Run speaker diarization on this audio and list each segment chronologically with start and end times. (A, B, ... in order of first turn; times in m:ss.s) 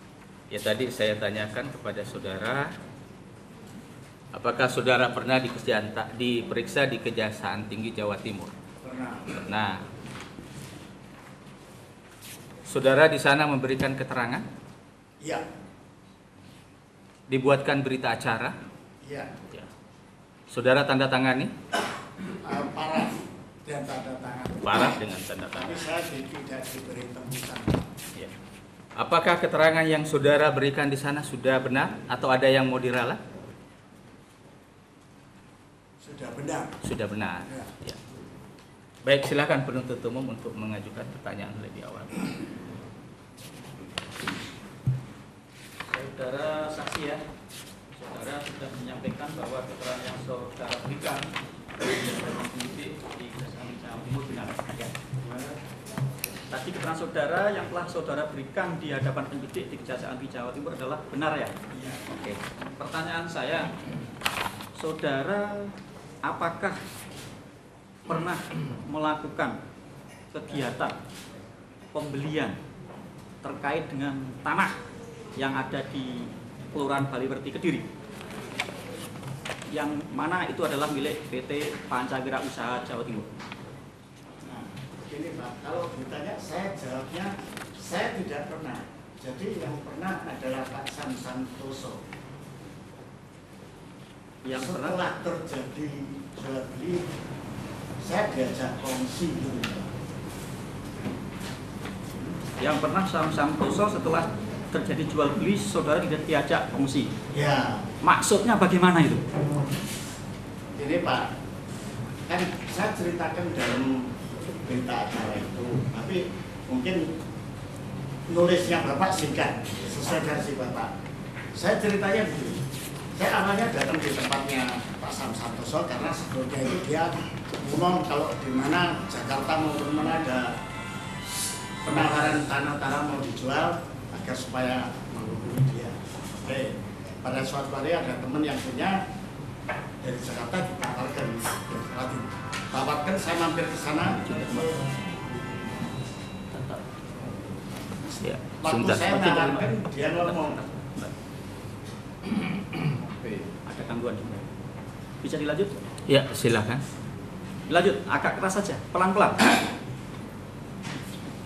0:00.5-0:02.7 A
0:04.3-0:08.5 A
0:08.8-0:09.4 B
0:09.3-0:09.8 A
0:12.7-0:14.4 A
0:17.3-0:18.5 A
0:19.0-0:19.3 B
0:20.5-0:21.5 A
0:22.4-0:25.0 B
0:24.6-0:25.8 A
0:25.5-0:27.8 B
0:29.0-0:33.2 A
0:36.0-0:36.8 B
0:36.8-0:38.0 A
0:37.4-0:37.7 B
0:39.0-0:42.3 A
0:45.9-0:47.2 C
0:47.9-0:54.9 C
0:55.2-0:55.6 B
0:56.5-1:01.5 C
1:01.7-1:02.1 B
1:02.1-1:03.7 C
1:04.7-1:06.8 C
1:08.0-1:09.6 C
1:10.3-1:11.0 C
1:11.9-1:12.6 C
1:13.4-1:14.8 C
1:15.4-1:17.8 C
1:19.7-1:23.3 C
1:24.4-1:32.0 B
1:34.4-1:35.0 C
1:34.5-1:37.1 B
1:38.0-1:39.9 B
1:42.6-1:47.1 C
1:47.3-1:47.8 B
1:48.0-1:49.2 C
1:50.8-1:51.3 B
1:52.3-1:54.1 B
1:54.6-1:57.0 B
1:58.3-2:00.9 B
2:01.5-2:02.6 B
2:03.1-2:10.5 B
2:11.8-2:19.0 B
2:20.0-2:24.6 B
2:24.2-2:24.9 C
2:28.1-2:30.6 B
2:28.2-2:29.4 A
2:29.2-2:31.1 C
2:33.6-2:34.5 C
2:35.2-2:35.8 C
2:36.1-2:36.8 A
2:37.7-2:39.4 C